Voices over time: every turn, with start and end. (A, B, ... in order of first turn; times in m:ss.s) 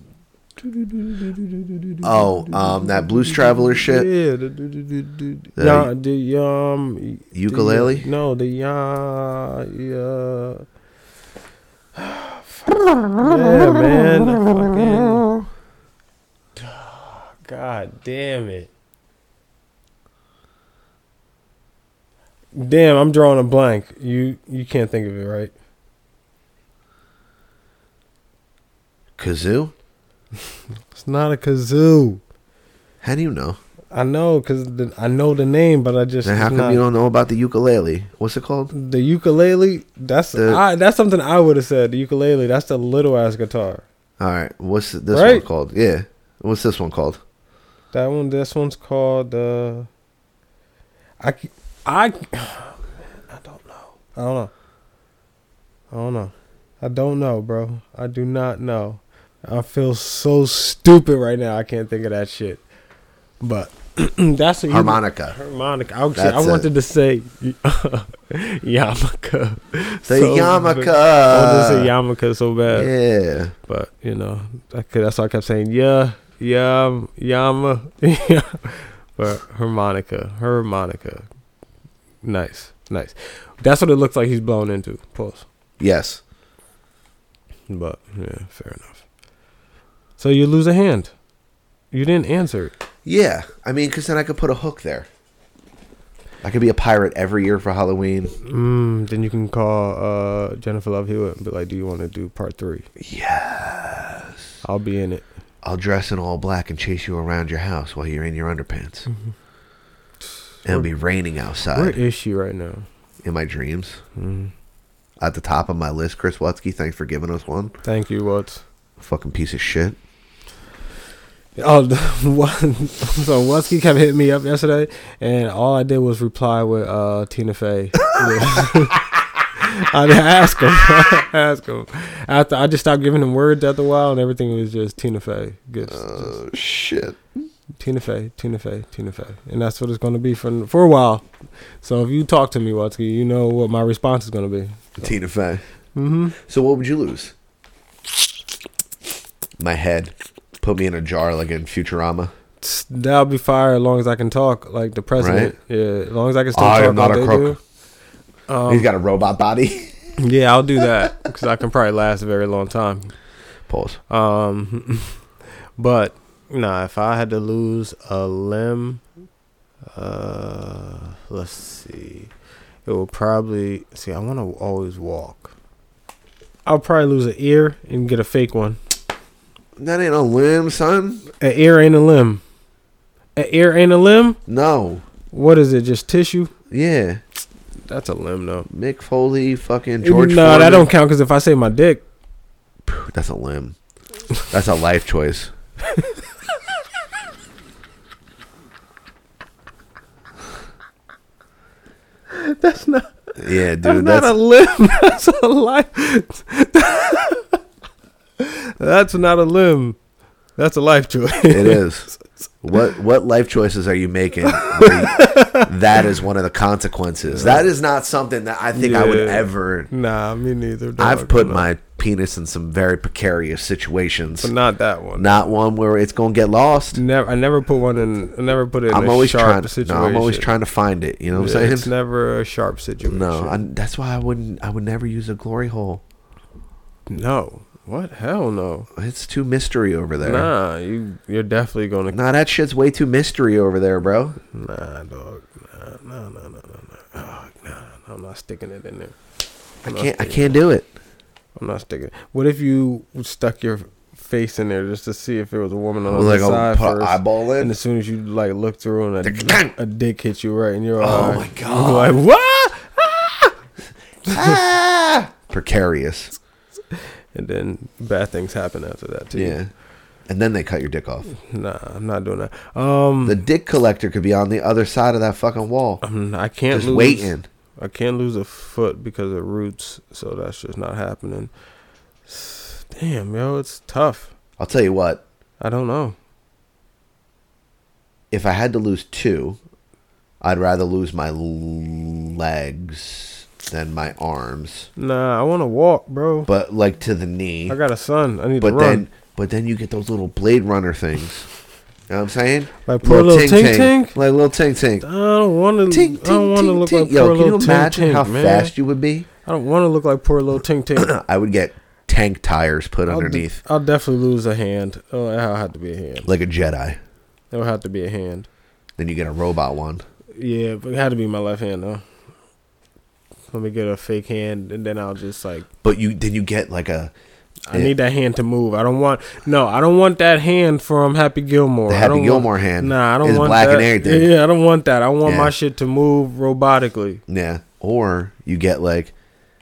0:00.6-0:10.6 A
0:02.0-0:04.1 B
0:05.6-0:05.9 B
0:07.3-0:08.1 B
0:12.0-0:15.3 A
0:13.0-0:15.4 B
0:16.6-0:18.7 A
0:22.5-0:25.5 A
0:29.2-0:29.7 B
0:30.9-0:32.2 A
0:33.0-0:33.6 B
0:33.9-0:36.8 A
0:36.2-0:38.7 B
0:38.7-0:43.8 A
0:40.3-0:40.6 B
0:44.2-0:47.2 B
0:45.1-0:45.4 A
0:47.9-0:49.9 A
0:51.2-0:54.5 A
0:55.9-1:02.6 A
1:03.4-1:12.9 A
1:04.7-1:05.4 B
1:06.1-1:06.7 B
1:10.0-1:11.9 B
1:12.7-1:13.5 B
1:13.7-1:21.2 A
1:22.2-1:25.4 A
1:25.8-1:26.2 B
1:27.7-1:29.0 A
1:30.2-1:31.1 A
1:31.9-1:32.7 A
1:33.0-1:35.1 B
1:36.4-1:38.4 B
1:38.4-1:42.9 A
1:43.0-1:44.4 B
1:44.6-1:45.2 A
1:45.6-1:49.0 B
1:49.1-1:49.3 A
1:50.6-1:52.0 B
1:51.7-1:52.8 A
1:53.2-1:54.0 B
1:54.2-1:54.5 A
1:55.2-1:57.7 B
1:57.8-1:58.6 A
1:59.0-2:00.0 B
2:01.6-2:09.0 A
2:08.2-2:08.6 B
2:09.6-2:16.3 A
2:15.9-2:17.2 B
2:17.8-2:21.2 A
2:21.8-2:25.1 A
2:25.0-2:25.6 B
2:25.9-2:26.4 A
2:26.4-2:27.3 B
2:29.6-2:32.3 B
2:32.6-2:37.6 A
2:35.2-2:35.5 B
2:36.5-2:37.6 B
2:38.5-2:38.9 A
2:38.7-2:39.9 B
2:40.2-2:43.1 A
2:43.7-2:44.0 B
2:44.1-2:45.2 A
2:45.8-2:49.0 A
2:49.9-2:52.3 A
2:52.8-2:55.5 A
2:56.6-2:58.8 A
2:59.8-3:01.2 B
3:01.4-3:02.4 A
3:03.4-3:04.4 A
3:04.5-3:05.0 B
3:05.3-3:06.5 A
3:06.7-3:07.2 B
3:07.9-3:08.7 A
3:08.6-3:10.9 B
3:10.0-3:12.0 A
3:12.8-3:13.8 B
3:14.5-3:15.5 B
3:22.3-3:23.2 A
3:23.4-3:24.3 B
3:23.8-3:27.4 A
3:28.4-3:30.0 A
3:30.6-3:32.2 A
3:31.5-3:32.1 B
3:32.6-3:39.9 B
3:34.4-3:35.7 A
3:37.2-3:37.7 A
3:38.7-3:41.7 A
3:41.0-3:44.5 B
3:44.4-3:45.5 A
3:45.2-3:47.0 B
3:46.9-3:50.5 A
3:48.9-3:51.9 B
3:51.3-3:53.6 A
3:53.0-3:56.0 B
3:57.1-3:58.9 A
3:58.9-4:00.5 B
4:00.2-4:02.2 A
4:02.1-4:04.4 B
4:04.5-4:09.1 A
4:09.8-4:10.6 A
4:09.8-4:10.9 B
4:11.6-4:23.5 A
4:16.1-4:17.7 B
4:19.2-4:19.7 B
4:21.0-4:22.2 B
4:24.3-4:24.6 A
4:24.3-4:26.3 B
4:26.9-4:29.6 A
4:29.3-4:29.7 B
4:30.3-4:31.3 B
4:31.3-4:33.4 A
4:33.2-4:36.0 B
4:36.0-4:41.5 A
4:36.7-4:37.5 B
4:42.3-4:44.3 A
4:44.6-4:45.2 B
4:45.6-4:46.2 A
4:48.3-4:49.6 B
4:50.4-4:54.9 B
4:55.0-4:56.5 A
4:56.5-4:57.8 B
4:57.7-4:59.0 A
4:58.6-5:01.5 B
5:02.1-5:05.1 B
5:02.9-5:04.2 A
5:05.0-5:08.7 A
5:05.9-5:09.3 B
5:09.4-5:11.1 A
5:11.0-5:13.6 B
5:13.1-5:16.3 A
5:16.2-5:17.0 B
5:17.5-5:18.5 A
5:19.0-5:20.0 B
5:20.3-5:22.0 A
5:23.5-5:25.7 A
5:25.8-5:27.1 B
5:27.7-5:37.2 A
5:31.9-5:34.3 B
5:35.2-5:35.6 B
5:37.3-5:39.1 B